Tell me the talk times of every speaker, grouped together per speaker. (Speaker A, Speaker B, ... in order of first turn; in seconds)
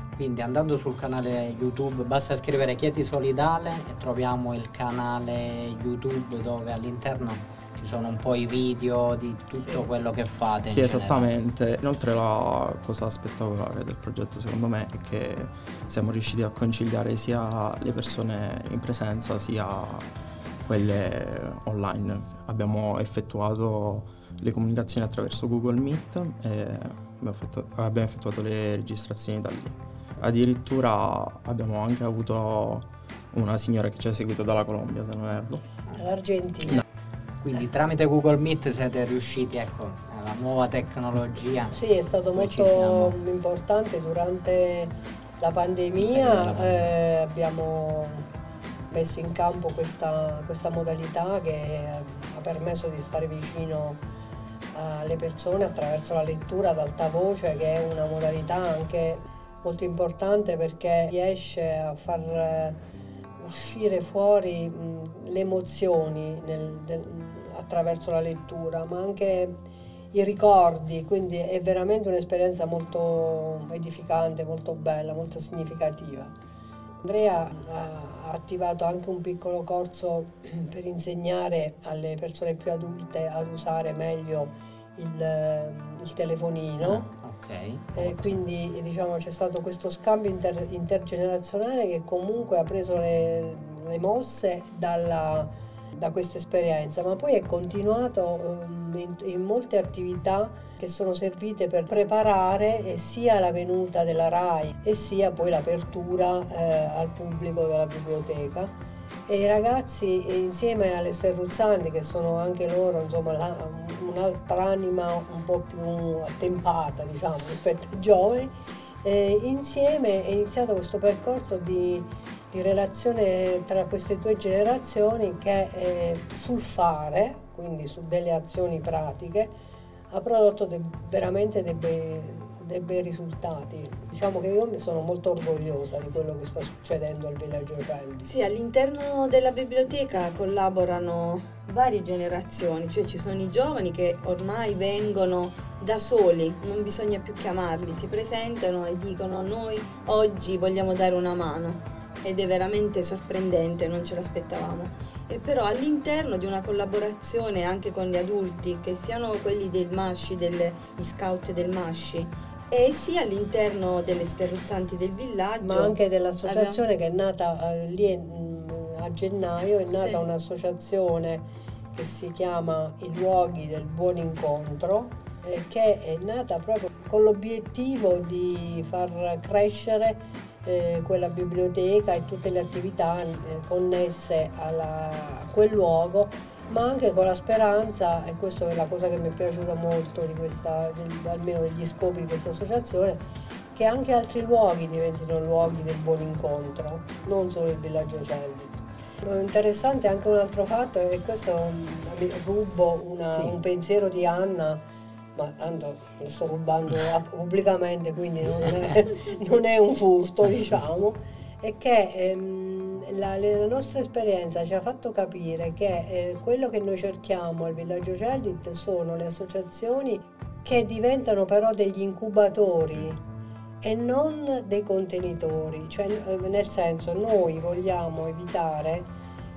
Speaker A: 0.1-11.3, 37.4-41.8, 42.3-43.1, 46.0-46.9, 86.8-88.4
Speaker B: 10.6-20.1, 20.6-35.6
Speaker C: 35.9-36.8, 41.7-48.3, 48.9-54.0, 54.7-62.8, 63.4-69.6, 70.1-76.3, 77.0-87.1, 88.0-108.7, 109.3-118.5, 119.0-129.5, 130.1-138.3, 165.6-193.2, 193.7-204.8, 205.3-223.2, 223.8-229.1
Speaker D: 138.2-166.8, 169.9-170.3